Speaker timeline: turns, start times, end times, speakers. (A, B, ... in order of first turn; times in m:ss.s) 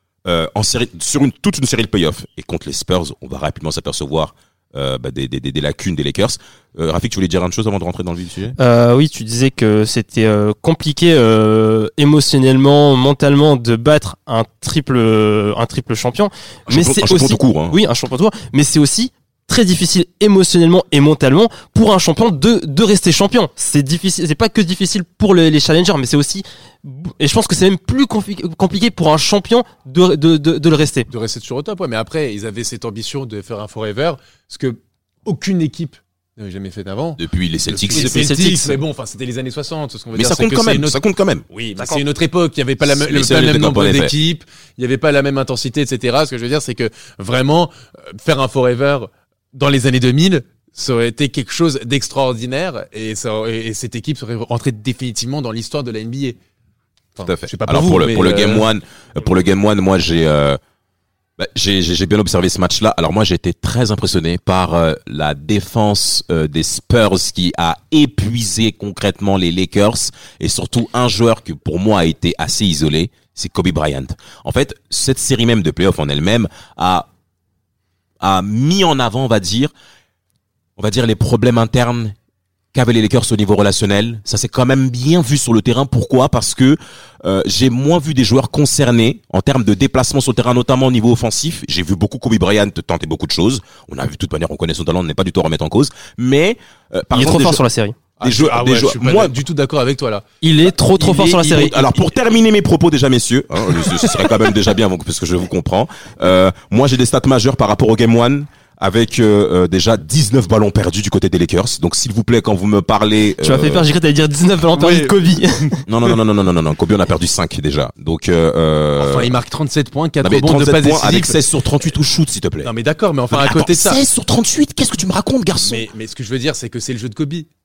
0:00.3-0:08.6 A
0:08.6-0:31.1 B
0:16.7-0:17.8 A
0:31.1-0:41.0 C
0:37.2-0:38.2 A
0:37.9-0:38.8 B
0:40.2-0:41.4 A
0:41.5-0:56.4 C
0:41.6-0:42.0 B
0:42.9-0:44.1 A
0:57.2-0:58.7 C
0:57.2-1:00.6 A
1:01.4-1:17.1 A
1:18.2-1:19.7 A
1:20.8-1:22.2 A
1:22.7-1:37.6 A
1:37.1-1:38.0 B
1:38.2-1:40.2 C
1:38.2-1:39.4 A
1:40.4-1:41.9 B
1:41.0-1:41.7 C
1:41.5-1:53.9 A
1:43.8-1:44.3 C
1:53.4-1:55.8 B
1:54.8-1:55.8 C
1:55.9-1:59.4 A
1:59.0-2:01.4 C
2:00.2-2:02.7 A
2:02.6-2:04.0 C
2:03.3-2:05.9 A
2:05.6-2:07.5 C